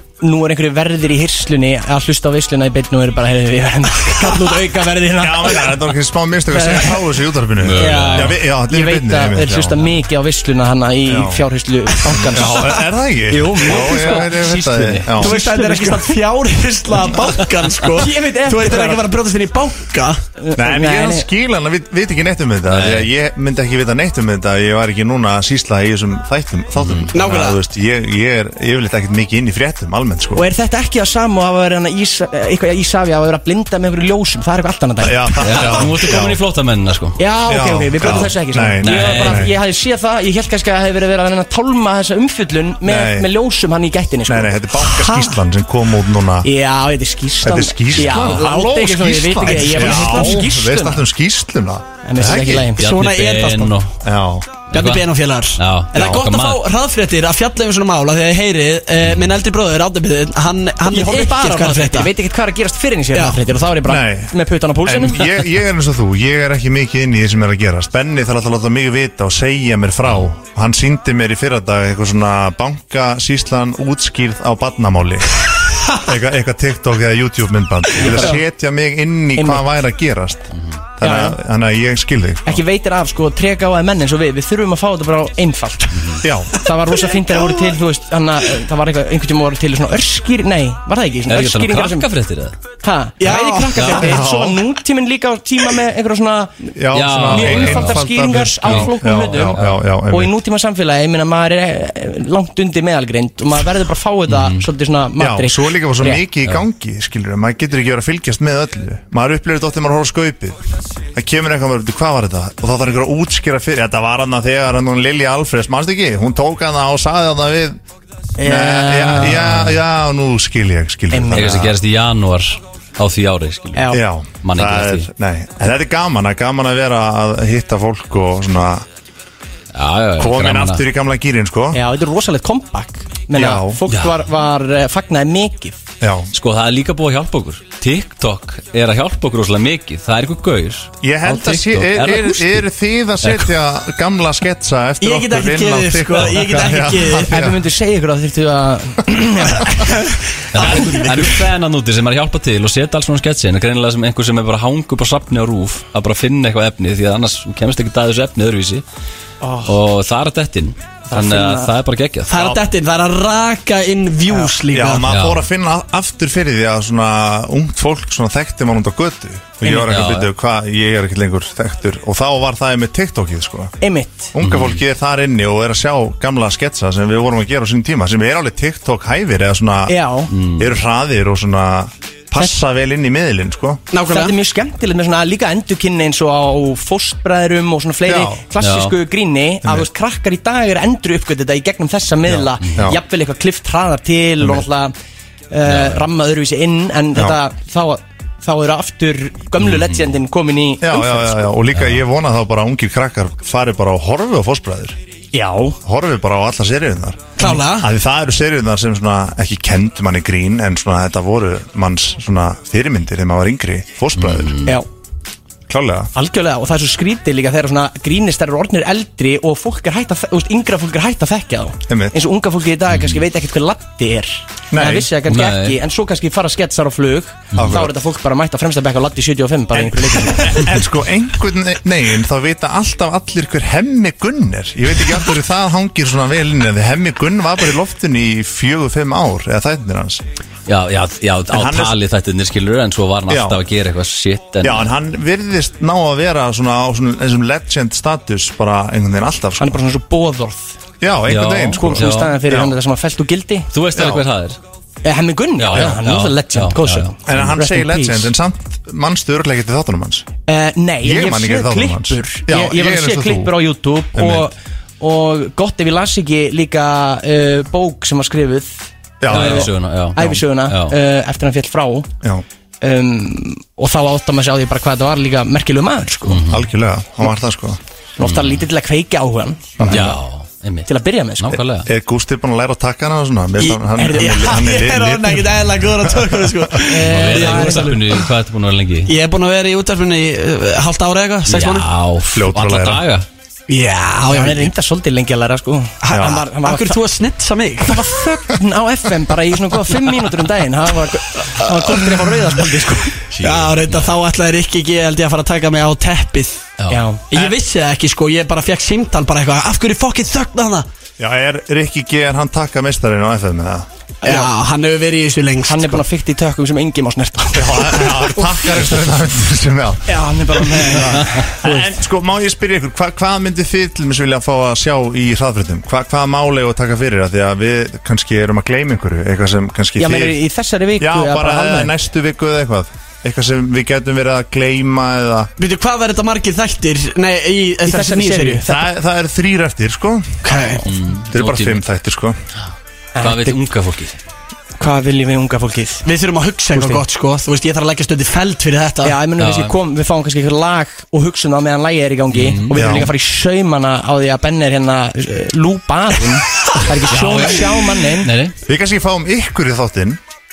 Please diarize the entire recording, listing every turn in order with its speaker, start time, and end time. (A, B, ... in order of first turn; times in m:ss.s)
0:00.2-0:05.7 A
0:05.2-0:09.9 B
0:06.6-0:07.0 A
0:07.6-0:08.4 C
0:07.8-0:16.2 A
0:11.1-0:11.4 B
0:12.1-0:15.3 B
0:14.1-0:15.0 C
0:15.2-0:20.2 D
0:17.9-0:19.1 A
0:20.4-0:21.3 A
0:20.6-0:30.4 B
0:22.7-0:23.1 C
0:26.8-0:27.1 C
0:27.1-0:27.6 D
0:30.4-0:35.8 A
0:35.0-0:36.4 B
0:35.4-0:37.2 C
0:37.2-0:45.3 A
0:37.5-0:39.5 B
0:38.8-0:39.4 C
0:42.9-0:43.3 B
0:44.3-0:46.5 B
0:46.4-0:51.0 A
0:47.4-0:52.7 B
0:52.0-0:52.8 A
0:52.8-0:53.9 C
0:52.8-0:53.8 D
0:54.0-0:54.6 B
0:54.7-0:55.0 C
0:54.7-1:02.1 D
0:55.6-0:56.6 C
0:56.0-0:56.2 B
1:00.8-1:05.3 A
1:03.9-1:04.3 B
1:04.8-1:22.6 B
1:18.0-1:18.4 A
1:19.4-1:19.6 A
1:21.0-1:21.4 A
1:22.5-1:32.1 A
1:25.9-1:26.2 C
1:26.2-1:26.6 B
1:31.3-1:32.6 C
1:32.8-1:36.6 A
1:33.2-1:34.0 D
1:33.8-1:34.1 C
1:34.0-1:34.6 B
1:36.8-1:40.3 B
1:36.9-1:38.0 C
1:37.3-1:46.2 A
1:38.6-1:39.8 C
1:44.3-1:44.6 C
1:45.2-1:50.6 B
1:51.2-1:57.8 B
1:58.4-1:59.7 A
1:58.4-2:01.7 B
2:01.1-2:01.5 A
2:01.3-2:05.1 C
2:03.8-2:04.0 A
2:03.9-2:08.8 B
2:09.7-2:10.8 C
2:10.2-2:11.8 B
2:11.7-2:15.8 A
2:13.4-2:13.8 B
2:13.9-2:14.2 C
2:16.0-2:16.3 B
2:16.3-2:22.6 C
2:21.0-2:27.6 B
2:25.0-2:27.4 D
2:27.2-2:29.8 A
2:30.5-2:38.8 C
2:30.6-2:31.4 D
2:39.4-2:39.8 A
2:39.6-2:42.3 C
2:41.1-2:41.7 A
2:42.3-2:45.0 D
2:44.7-2:53.7 B
2:45.1-2:45.4 C
2:49.7-2:50.3 C
2:53.8-2:54.3 A
2:54.3-3:00.0 B
2:54.4-2:54.8 C
2:59.9-3:00.3 A
3:00.3-3:00.7 C
3:00.6-3:03.8 B
3:03.9-3:04.3 D
3:04.0-3:14.9 A
3:08.1-3:08.5 B
3:08.6-3:08.9 C
3:12.3-3:13.0 B
3:15.5-3:21.5 A
3:15.6-3:16.0 C
3:19.6-3:20.1 C
3:20.8-3:25.0 B
3:25.3-3:25.8 A
3:25.8-3:34.6 B
3:27.4-3:27.9 D
3:34.2-3:34.7 C
3:35.7-3:36.1 B
3:36.2-3:50.7 A
3:41.9-3:42.2 B
3:42.9-3:43.2 C
3:44.7-3:45.1 B
3:45.3-3:45.8 C
3:47.6-3:47.9 B
3:49.8-4:00.2 B
4:00.7-4:04.9 C
4:01.5-4:02.0 B
4:03.3-4:03.6 B
4:04.6-4:09.8 B
4:09.6-4:10.8 A
4:11.0-4:12.7 B
4:11.3-4:12.4 C
4:11.8-4:13.7 A
4:13.7-4:14.6 C
4:14.0-4:14.2 B
4:15.0-4:18.3 A
4:15.6-4:17.4 C
4:17.2-4:20.3 B
4:20.5-4:32.1 A
4:21.0-4:23.6 B
4:24.2-4:24.5 B
4:29.2-4:29.7 B
4:29.3-4:31.0 C
4:32.8-4:36.4 A
4:36.3-4:36.6 C
4:36.5-4:37.8 B
4:38.2-4:40.1 A
4:38.2-4:38.6 C
4:39.8-4:40.2 B
4:39.9-4:40.9 C
4:40.9-4:41.6 A
4:41.4-4:41.9 C
4:41.8-4:46.5 B
4:43.6-4:48.0 D
4:44.0-4:44.5 A
4:46.8-4:48.1 A
4:47.0-4:49.1 C
4:49.1-4:51.9 D
4:51.5-4:53.3 C
4:52.3-4:53.0 B
4:53.7-4:54.7 D
4:54.3-4:57.0 A
4:56.0-4:58.1 D
4:56.1-4:56.4 B
4:57.9-5:03.2 A
5:03.3-5:04.1 C
5:03.4-5:06.7 D
5:06.9-5:07.3 A
5:07.3-5:10.9 D
5:11.2-5:13.9 B
5:14.2-5:16.0 D
5:14.2-5:14.5 A
5:15.7-5:18.5 A
5:17.6-5:20.1 B
5:20.1-5:22.0 A
5:20.6-5:30.4 B
5:30.0-5:31.9 A
5:31.0-5:35.5 B
5:35.6-5:38.6 D
5:37.8-5:38.9 A
5:38.6-5:40.4 B
5:40.4-5:40.8 D
5:40.8-5:41.8 C
5:41.3-5:42.4 B
5:43.2-5:43.6 A
5:43.2-5:44.2 C
5:44.8-5:46.0 A
5:46.0-5:49.2 D
5:46.7-5:47.0 A
5:49.0-5:58.3 A
5:49.4-5:49.8 C
5:52.3-5:52.8 C
5:52.7-5:53.1 B
5:57.1-5:58.6 C
5:58.7-6:00.2 B